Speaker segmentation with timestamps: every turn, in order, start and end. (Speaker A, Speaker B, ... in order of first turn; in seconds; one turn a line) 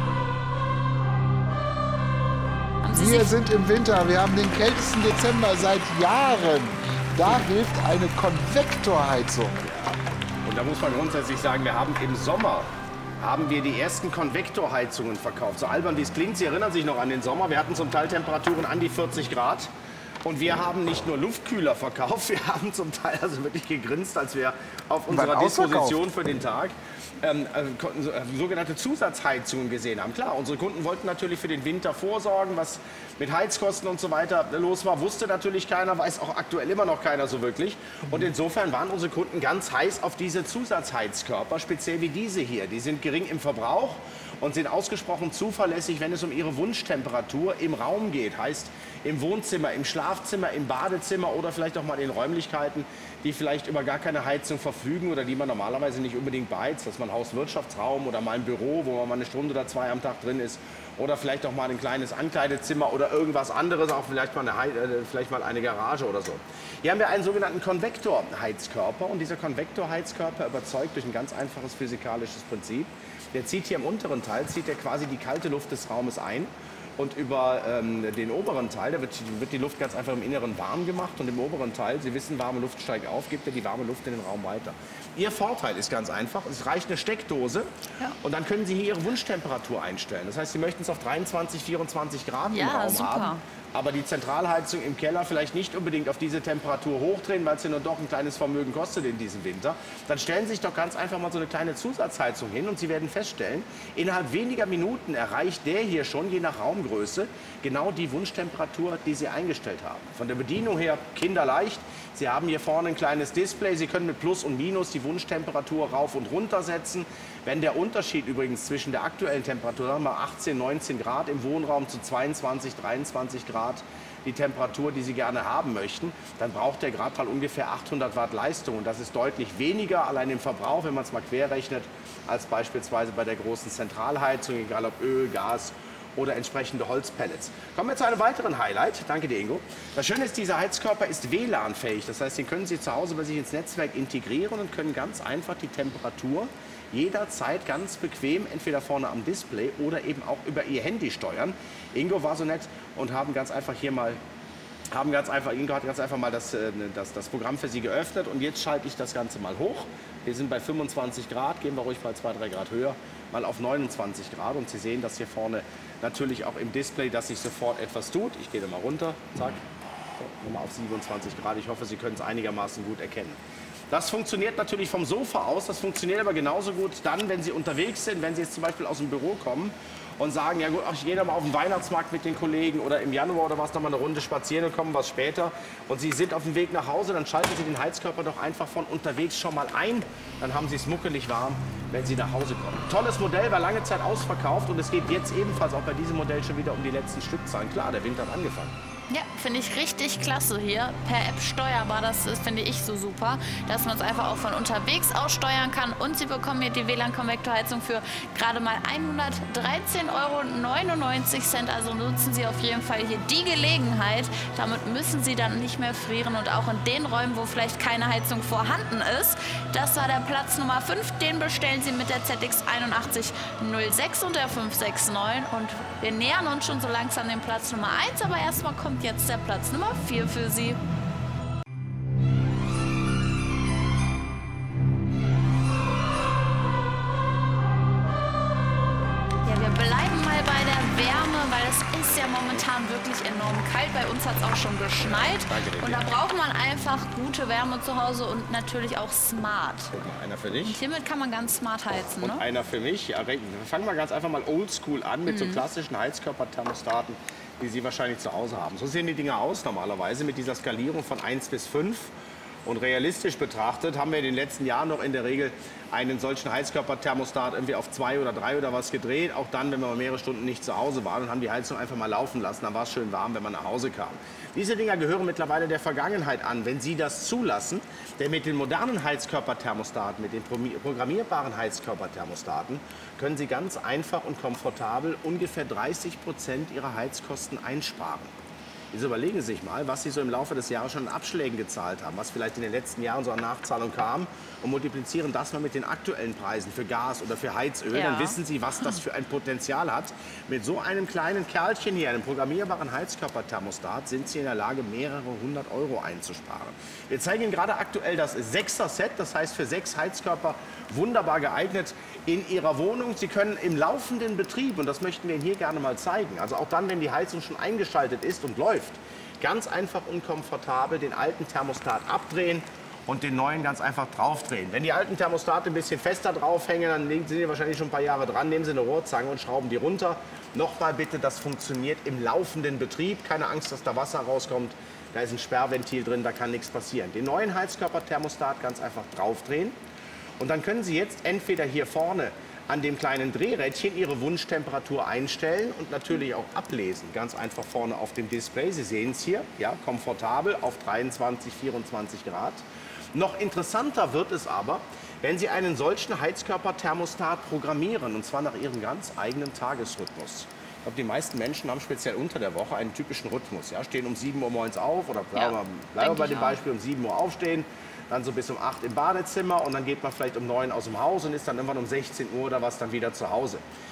Speaker A: 2.8-3.3
Speaker B: 2.9-9.6
Speaker C: 9.6-19.7
Speaker C: 20.2-87.7
Speaker B: 25.1-26.0
Speaker C: 88.2-154.2
Speaker A: 92.5-93.4
Speaker C: 154.9-169.6
Speaker C: 170.2-173.4
Speaker C: 173.9-198.8
Speaker A: 199.1-230.8
Speaker A: 239.4-249.9
Speaker C: 245.0-246.0
Speaker C: 249.9-250.8
Speaker A: 250.7-252.4
Speaker C: 252.2-262.1
Speaker A: 255.3-255.6
Speaker C: 262.7-288.3
Speaker C: 288.9-339.8
Speaker A: 297.9-299.0
Speaker C: 340.4-352.6
Speaker C: 353.1-373.6
Speaker A: 365.4-366.6